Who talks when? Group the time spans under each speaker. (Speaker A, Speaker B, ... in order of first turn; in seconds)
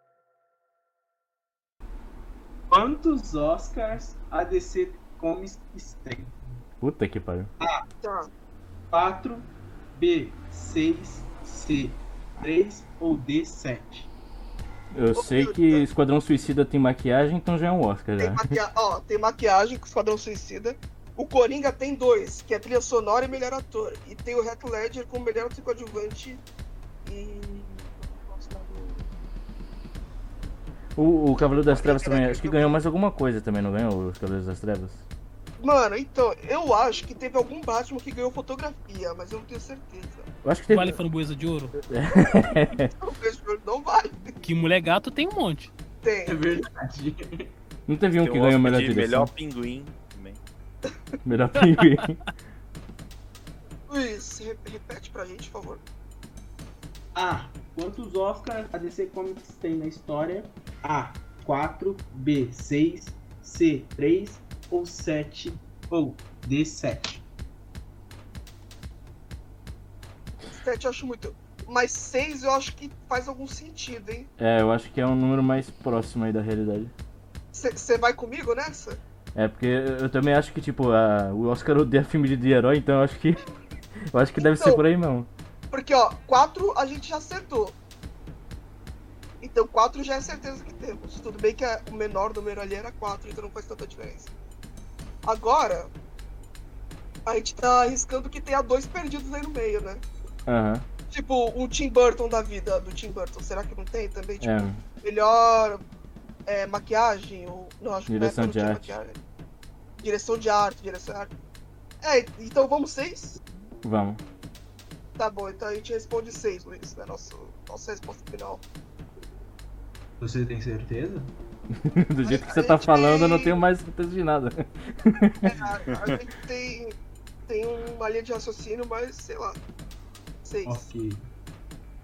Speaker A: 2.7-6.3, 8.9-14.1, 46.2-47.5, 57.1-67.2, 120.2-121.3, 130.7-131.2
Speaker B: 6.8-7.5, 14.9-18.5, 30.9-35.0, 40.4-41.0, 41.9-42.9, 47.9-49.3, 51.2-52.2, 74.4-76.9, 79.3-83.4, 84.1-85.3, 100.5-100.8, 104.4-104.8, 108.1-108.9, 113.8-114.2, 121.7-125.5
Speaker C: 8.0-8.3, 15.2-15.8, 18.2-26.4, 27.0-29.1, 31.7-32.7, 35.6-40.3, 43.0-44.4, 46.0-46.6, 53.9-55.8, 70.5-74.3, 77.5-79.0, 84.4-84.8, 85.7-87.8, 89.4-94.3, 95.2-95.9, 97.2-100.0, 101.1-105.8, 106.5-109.2, 110.0-111.3, 112.0-113.4, 115.2-118.6, 122.2-123.5, 125.4-127.0, 127.5-129.6, 130.4-130.8
Speaker D: 40.7-41.8, 44.4-45.7, 51.8-52.0
Speaker E: 48.2-50.4, 125.9-126.2